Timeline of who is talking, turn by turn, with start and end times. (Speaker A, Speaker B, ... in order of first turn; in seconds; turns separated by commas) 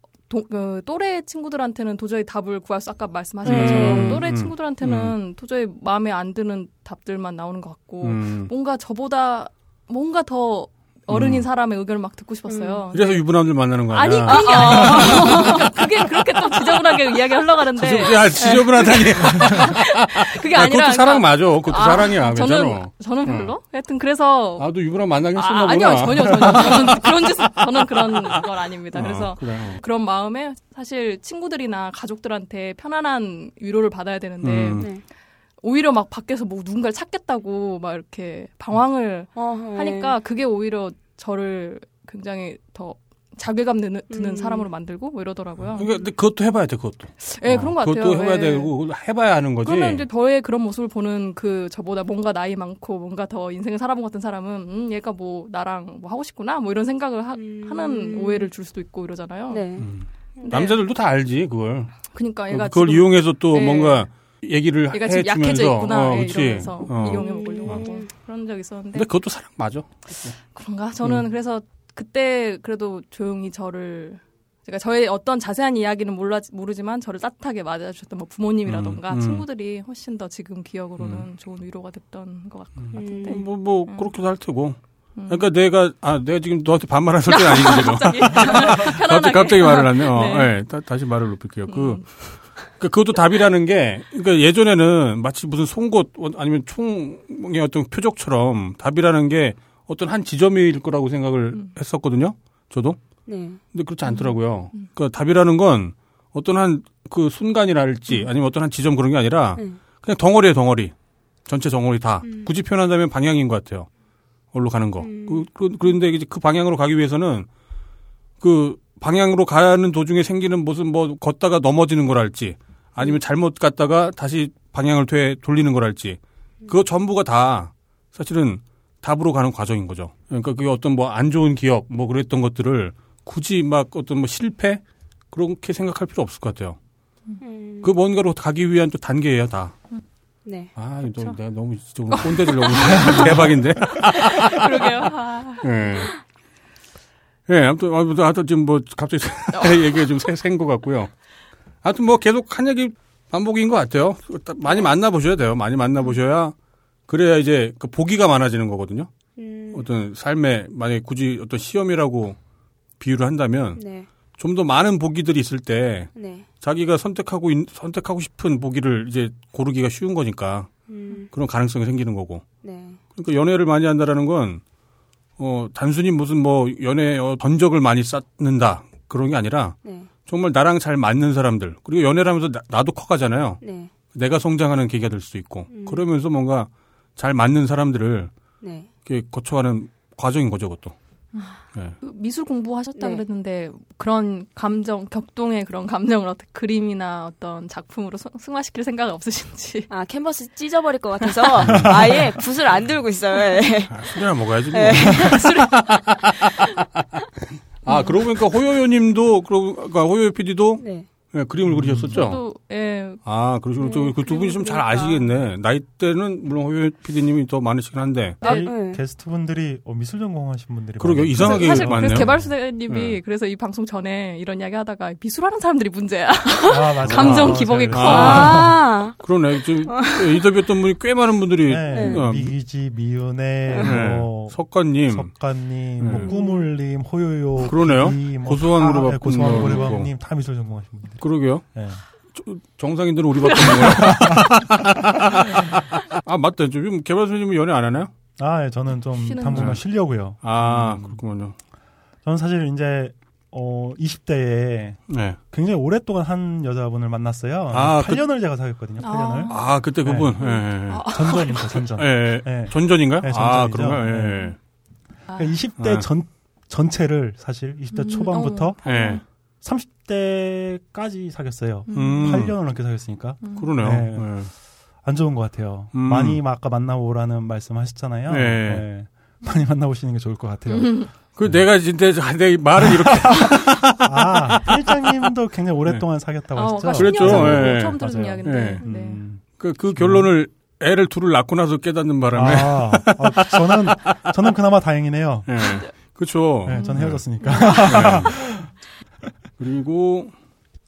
Speaker A: 0.3-24.7, Speaker B: 3.5-4.2, Speaker C: 3.5-5.2, Speaker C: 8.0-8.5, Speaker C: 11.1-11.5, Speaker B: 12.5-12.9, Speaker C: 12.9-15.7, Speaker B: 14.2-15.8, Speaker C: 17.8-23.5, Speaker B: 18.4-18.8, Speaker B: 19.4-19.7, Speaker C: 24.6-28.4, Speaker A: 25.4-35.0, Speaker C: 28.9-29.8, Speaker C: 34.4-34.9, Speaker A: 35.6-46.1, Speaker B: 39.4-40.2, Speaker B: 44.1-44.7, Speaker C: 45.8-50.0, Speaker A: 47.2-48.7, Speaker A: 49.6-59.6, Speaker B: 57.3-58.5, Speaker B: 59.5-60.6, Speaker C: 59.8-67.8, Speaker A: 60.4-60.8, Speaker A: 62.1-64.1, Speaker A: 64.9-69.1, Speaker B: 67.0-68.1, Speaker C: 68.9-70.3, Speaker A: 70.4-84.1, Speaker C: 78.7-79.5, Speaker C: 81.0-81.3, Speaker C: 82.8-103.0, Speaker B: 82.9-83.4, Speaker A: 85.2-85.5, Speaker A: 87.3-90.5, Speaker A: 91.7-92.3, Speaker B: 103.3-103.6, Speaker C: 103.7-110.9, Speaker A: 104.1-104.9, Speaker C: 111.5-113.9, Speaker B: 112.2-112.5, Speaker C: 114.5-117.5, Speaker B: 115.0-115.5, Speaker C: 118.4-136.8, Speaker B: 137.4-137.9, Speaker C: 137.8-139.8, Speaker B: 140.4-140.7, Speaker C: 140.8-144.9, Speaker A: 142.1-146.1, Speaker C: 145.6-146.1, Speaker C: 147.5-151.2, Speaker A: 149.6-149.9, Speaker C: 151.8-156.5, Speaker C: 157.1-159.1, Speaker B: 159.4-159.9, Speaker C: 159.7-162.4, Speaker C: 163.0-163.8, Speaker B: 163.8-164.1, Speaker C: 164.3-170.7, Speaker B: 166.2-166.5, Speaker B: 170.9-171.3, Speaker C: 171.3-172.5, Speaker B: 172.6-173.0, Speaker C: 173.2-174.6, Speaker C: 175.4-188.3, Speaker B: 179.8-180.1, Speaker B: 183.6-183.9, Speaker B: 185.7-186.1, Speaker B: 188.6-188.9, Speaker C: 189.1-190.9, Speaker A: 191.3-199.9, Speaker B: 192.9-193.2, Speaker B: 199.9-204.2, Speaker A: 201.3-201.9, Speaker C: 201.6-202.0, Speaker C: 203.9-206.4, Speaker B: 204.7-205.6, Speaker A: 205.0-206.6, Speaker C: 207.9-212.4, Speaker A: 207.9-208.2, Speaker B: 210.8-211.1, Speaker D: 211.7-212.2, Speaker A: 212.1-213.2, Speaker C: 213.2-218.4, Speaker A: 213.8-215.2, Speaker A: 218.4-218.7, Speaker D: 218.4-222.5, Speaker B: 218.4-219.0, Speaker C: 221.0-223.2, Speaker A: 221.4-228.6, Speaker D: 226.7-228.8, Speaker C: 227.0-232.5, Speaker B: 228.0-229.2, Speaker B: 229.8-230.4, Speaker D: 231.7-242.0, Speaker B: 231.9-232.2, Speaker B: 233.7-234.0, Speaker C: 233.8-235.3, Speaker C: 236.0-236.3, Speaker A: 236.3-236.6, Speaker C: 237.6-240.1, Speaker C: 241.2-248.1, Speaker D: 243.6-244.5, Speaker D: 248.4-251.2, Speaker A: 249.1-249.8, Speaker C: 249.5-251.6, Speaker D: 252.2-264.6, Speaker C: 255.1-255.4, Speaker C: 257.7-258.2, Speaker A: 259.0-259.8, Speaker C: 259.5-264.6, Speaker A: 260.4-261.7, Speaker A: 265.3-265.6, Speaker D: 265.4-268.8, Speaker C: 265.8-266.1, Speaker A: 267.9-269.2, Speaker C: 268.9-269.2, Speaker D: 269.6-274.5, Speaker A: 271.9-272.5, Speaker C: 271.9-272.6, Speaker A: 273.4-273.7, Speaker C: 273.6-274.5, Speaker D: 275.0-281.6, Speaker C: 275.9-276.4, Speaker C: 278.3-278.9, Speaker A: 280.7-281.1, Speaker C: 281.4-285.1, Speaker D: 282.8-290.3, Speaker A: 286.6-289.2, Speaker C: 287.0-288.8, Speaker C: 289.6-294.3, Speaker D: 292.3-295.5, Speaker C: 295.5-297.2, Speaker A: 295.6-295.9, Speaker D: 296.6-298.7, Speaker A: 296.7-298.0, Speaker C: 297.8-298.3, Speaker C: 299.6-300.3